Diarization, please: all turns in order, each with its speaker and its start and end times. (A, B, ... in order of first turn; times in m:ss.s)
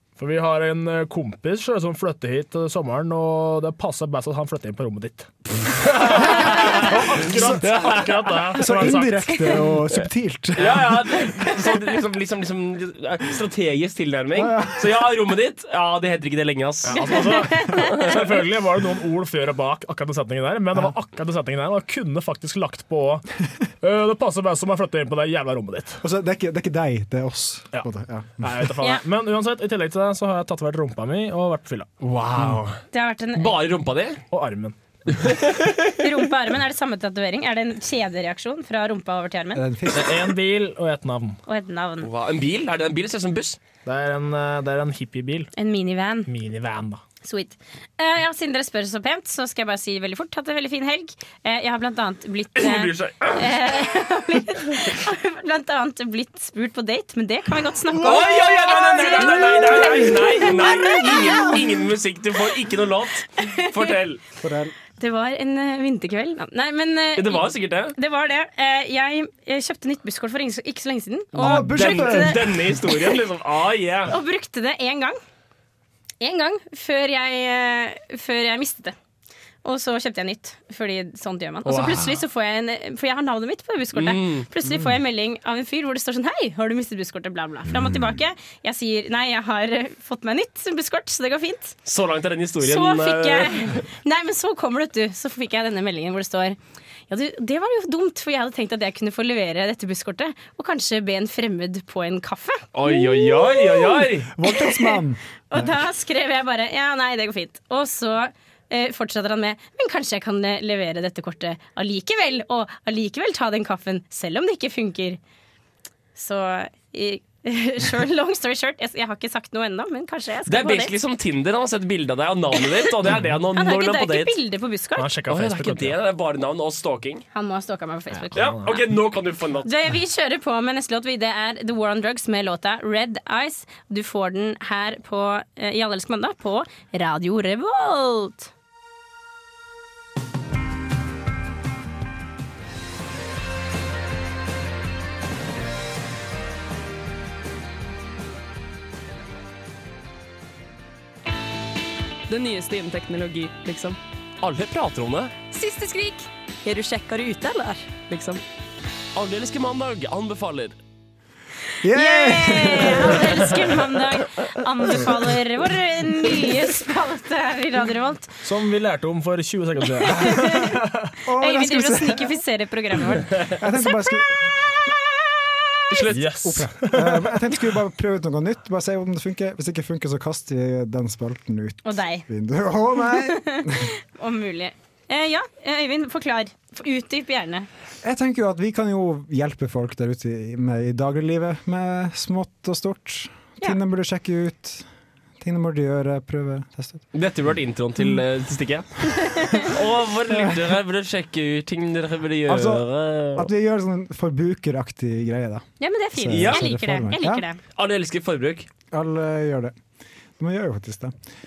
0:00.2-0:09.9 A
0:05.9-0:08.6 B
0:08.6-0:11.1 C
0:10.6-0:18.2 B
0:14.3-0:14.9 C
0:16.8-0:26.0 A
0:16.9-0:18.0 D
0:26.0-0:28.7 C
0:28.4-0:31.9 A
0:32.0-0:32.8 B
0:32.9-0:33.6 D
0:33.4-0:34.2 B
0:34.3-0:34.8 A
0:35.1-0:35.9 B
0:36.0-0:39.6 D
0:39.5-0:40.3 C
0:39.9-0:41.4 A
0:41.5-0:42.1 D
0:42.0-0:43.6 B
0:43.8-0:45.5 A
0:45.6-0:46.3 D
0:46.3-0:47.0 A
0:47.2-1:01.6 D
0:52.6-0:53.5 B
0:57.9-1:04.2 B
1:03.4-1:03.7 D
1:04.4-1:04.7 C
1:05.0-1:12.8 D
1:07.2-1:08.0 B
1:11.4-1:12.8 C
1:11.4-1:14.2 B
1:14.1-1:15.2 D
1:16.2-1:18.9 D
1:19.6-1:31.8 D
1:21.7-1:22.2 B
1:24.0-1:24.5 B
1:31.9-1:33.8 B
1:32.6-1:36.6 D
1:37.1-1:55.2 D
1:42.8-1:44.3 B
1:44.3-1:45.8 C
1:56.2-2:01.0 D
2:00.5-2:04.4 B
2:03.6-2:05.1 D
2:05.0-2:06.0 A
2:05.3-2:07.2 B
2:07.3-2:08.9 D
2:08.2-2:08.8 A
2:08.4-2:09.7 B
2:09.6-2:18.5 D
2:32.3-2:34.0 E
2:34.4-2:35.3 B
2:35.5-2:38.4 E
2:39.2-2:40.8 B
2:41.8-2:43.7 C
2:41.9-2:48.4 D
2:48.4-2:51.1 A
2:50.0-2:50.8 D
2:51.2-2:52.4 C
2:51.4-2:54.0 D
2:53.3-2:54.5 C
2:55.9-2:56.4 B
2:56.1-2:57.4 A
2:56.4-3:03.9 C
3:01.8-3:02.3 D
3:03.0-3:07.7 D
3:08.0-3:14.8 C
3:15.4-3:17.1 C
3:17.1-3:18.9 B
3:19.3-3:19.7 D
3:19.5-3:23.5 B
3:22.5-3:27.4 C
3:25.8-3:27.6 D
3:26.3-3:26.6 B
3:27.8-3:28.7 B
3:28.9-3:29.7 C
3:30.4-3:31.2 C